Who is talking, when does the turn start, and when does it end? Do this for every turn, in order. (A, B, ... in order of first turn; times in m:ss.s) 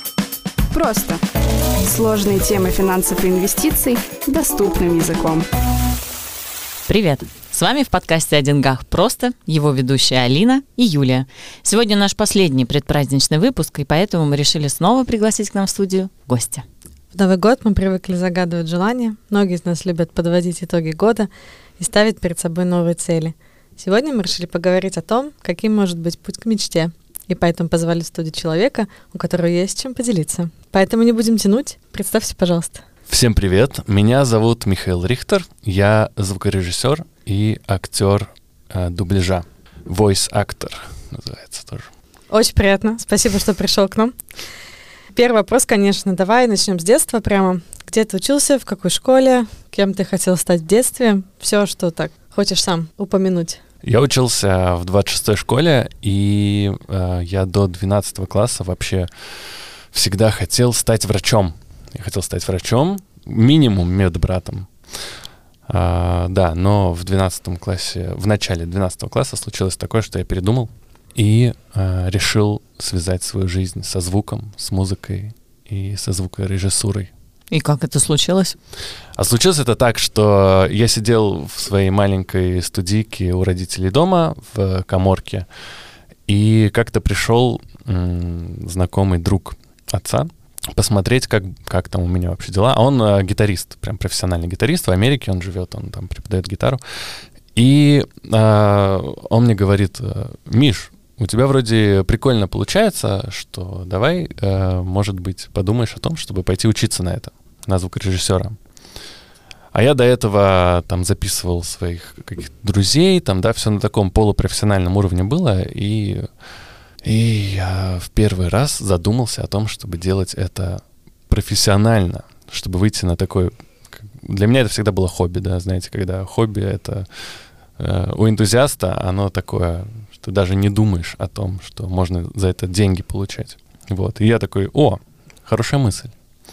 0:00.7-0:01.2 A
0:01.8-0:05.5 A
0:06.9-0:16.6 B
0:17.1-0:32.8 C
0:33.1-0:41.9 D
0:42.3-0:44.2 C
0:45.1-0:53.6 C
0:53.8-1:17.1 D
1:17.5-1:18.6 B
1:19.2-1:25.5 D
1:26.3-1:48.6 D
1:49.7-1:56.3 D
1:57.0-2:16.1 D